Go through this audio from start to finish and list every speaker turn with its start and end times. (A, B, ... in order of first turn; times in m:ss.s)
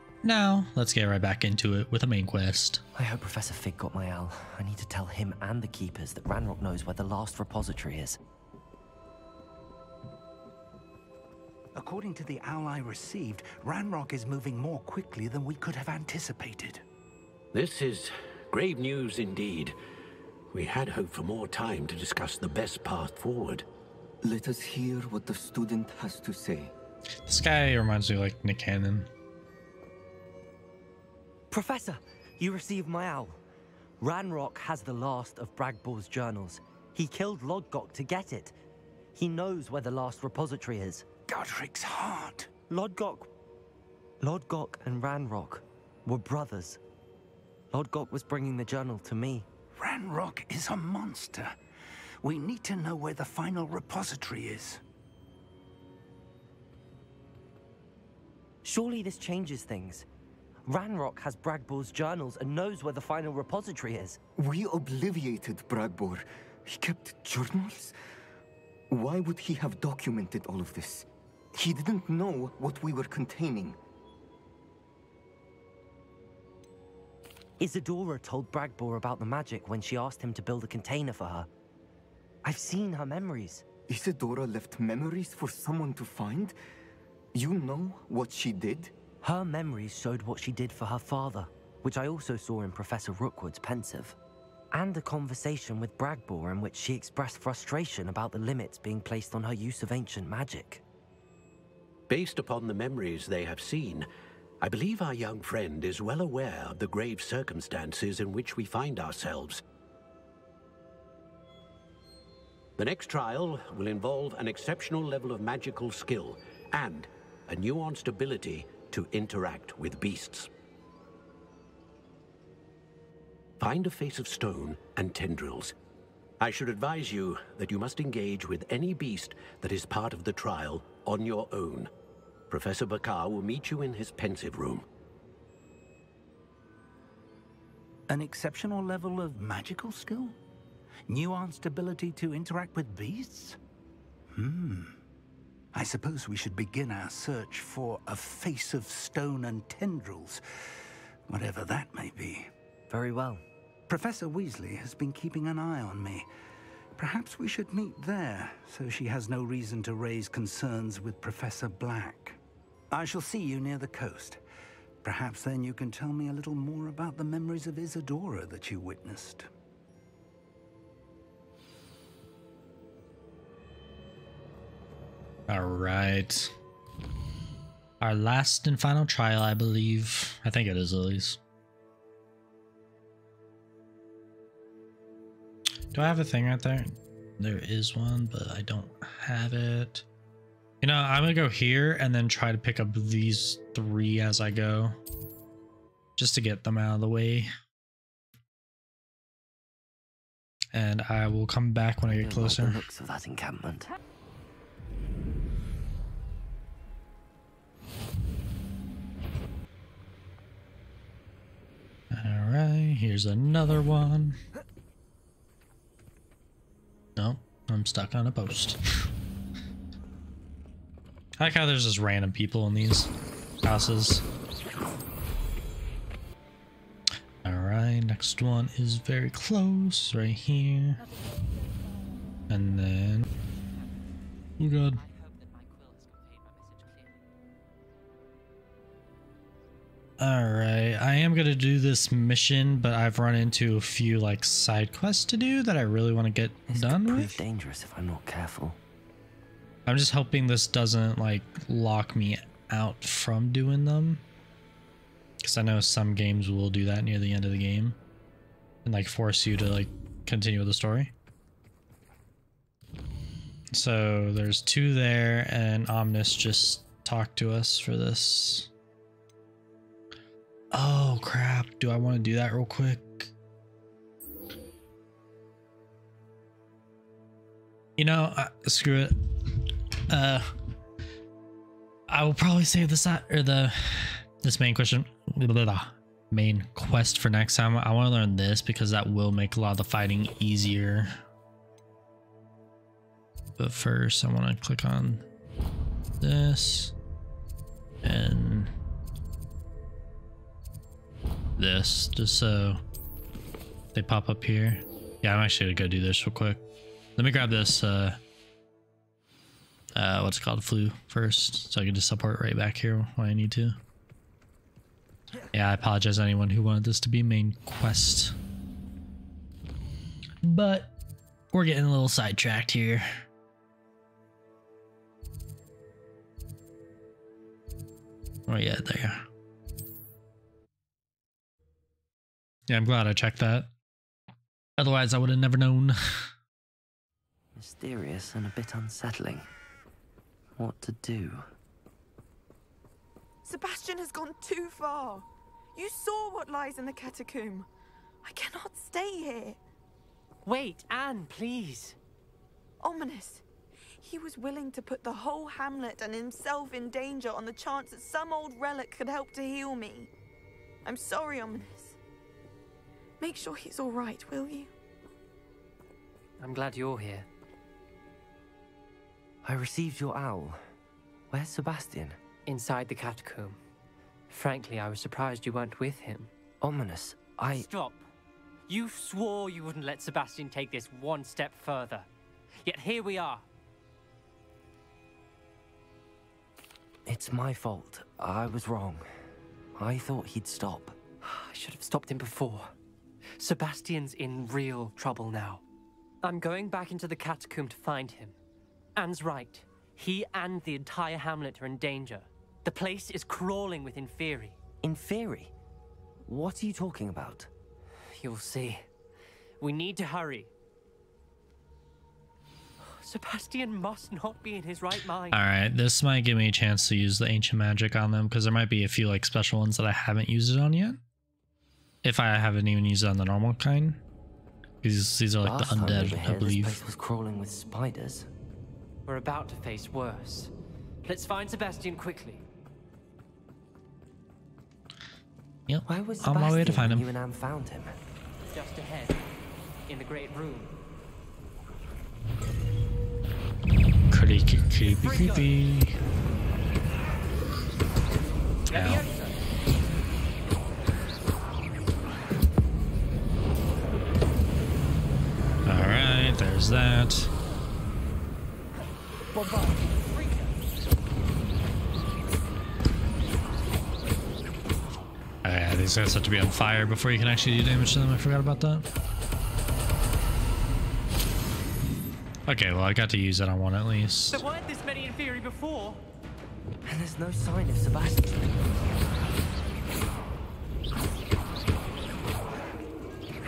0:00.2-0:02.8 A
0:03.0-0:08.2 B
0:11.8-0:16.8 C
0:17.5-0:19.8 D
0:20.5-0:23.6 D
0:24.2-0:26.7 E
0:27.3-0:29.1 A
0:31.5-0:33.4 B
0:34.0-0:38.5 B
0:39.2-0:41.1 B
0:41.3-0:42.5 C
0:42.7-0:43.3 B
0:44.2-0:46.8 B
0:47.7-0:49.5 B
0:49.8-0:51.6 C
0:52.2-0:54.8 C
0:58.6-1:00.1 B
1:00.7-1:04.2 B
1:04.4-1:08.0 E
1:08.9-1:13.8 E
1:17.6-1:21.5 B
1:22.4-1:23.6 B
1:23.9-1:26.6 E
1:27.3-1:28.9 E
1:29.2-1:34.2 B
1:34.7-1:40.8 B
1:42.1-1:44.1 D
1:44.6-1:49.6 D
1:52.8-2:00.5 D
2:03.6-2:05.7 D
2:06.4-2:11.9 D
2:12.5-2:14.8 D
2:18.1-2:20.4 C
2:21.1-2:23.6 C
2:24.3-2:25.0 C
2:25.7-2:30.4 C
2:31.3-2:32.5 C
2:32.9-2:33.4 B
2:33.9-2:36.3 C
2:37.0-2:42.4 C
2:42.9-2:44.4 C
2:45.0-2:49.5 C
2:55.5-2:56.5 A
2:58.0-3:01.4 A
3:05.9-3:10.0 A
3:10.8-3:15.0 A
3:16.2-3:17.5 A
3:20.7-3:22.8 A
3:22.0-3:23.9 B
3:32.1-3:34.4 A
3:37.2-3:39.1 A
3:41.4-3:43.1 A
3:43.6-3:44.2 A
3:47.4-3:51.0 A
3:52.5-3:53.3 A
3:53.3-3:54.1 F
3:54.6-3:55.0 A
3:54.9-3:57.2 F
4:00.2-4:07.4 A
4:06.7-4:08.8 B
4:09.9-4:14.2 A
4:15.4-4:18.0 A
4:18.8-4:21.1 A
4:23.7-4:28.7 A
4:30.7-4:33.3 A
4:38.0-4:39.1 A
4:40.1-4:40.5 A
4:42.1-4:51.1 A
4:53.6-4:55.2 A
4:56.2-4:56.9 A
4:58.0-4:58.7 A
5:01.6-5:02.8 A
5:03.9-5:06.6 A
5:07.2-5:08.2 A
5:10.0-5:13.8 A
5:15.5-5:18.4 A
5:20.4-5:20.9 A
5:21.5-5:23.1 A
5:28.5-5:29.3 A
5:32.7-5:33.7 A
5:34.8-5:36.3 A
5:37.6-5:39.5 B
5:40.6-5:41.5 B
5:43.4-5:47.7 G
5:48.2-5:49.6 G
5:50.4-5:52.0 F
5:52.8-5:53.4 G
5:54.0-6:00.1 G
6:00.8-6:02.0 G
6:03.2-6:04.7 G
6:06.4-6:07.3 F
6:09.4-6:10.6 B
6:11.3-6:12.2 B
6:12.5-6:13.6 F
6:14.3-6:16.3 F
6:16.6-6:17.7 B
6:17.5-6:18.1 F
6:18.7-6:22.1 F
6:22.6-6:23.5 F
6:27.1-6:29.1 B
6:29.8-6:31.0 B
6:31.2-6:32.7 F
6:33.4-6:35.6 F
6:36.2-6:38.4 F
6:39.0-6:44.6 F
6:44.8-6:45.5 B
6:46.2-6:47.5 B
6:48.1-6:48.9 F
6:49.6-6:50.5 F
6:52.8-6:55.4 F
6:55.3-7:01.0 A
7:02.0-7:04.0 A
7:04.8-7:06.8 A
7:05.4-7:08.3 B
7:09.1-7:10.5 F
7:11.0-7:12.4 F
7:15.7-7:17.1 A
7:15.9-7:18.0 B
7:18.5-7:19.2 F
7:19.9-7:20.7 F
7:24.1-7:25.9 A
7:25.0-7:25.5 F
7:28.7-7:29.0 A
7:28.7-7:29.4 F
7:35.7-7:37.3 A
7:45.4-7:48.9 A
7:52.5-7:54.4 A
7:54.3-7:56.0 F
7:56.8-7:58.5 B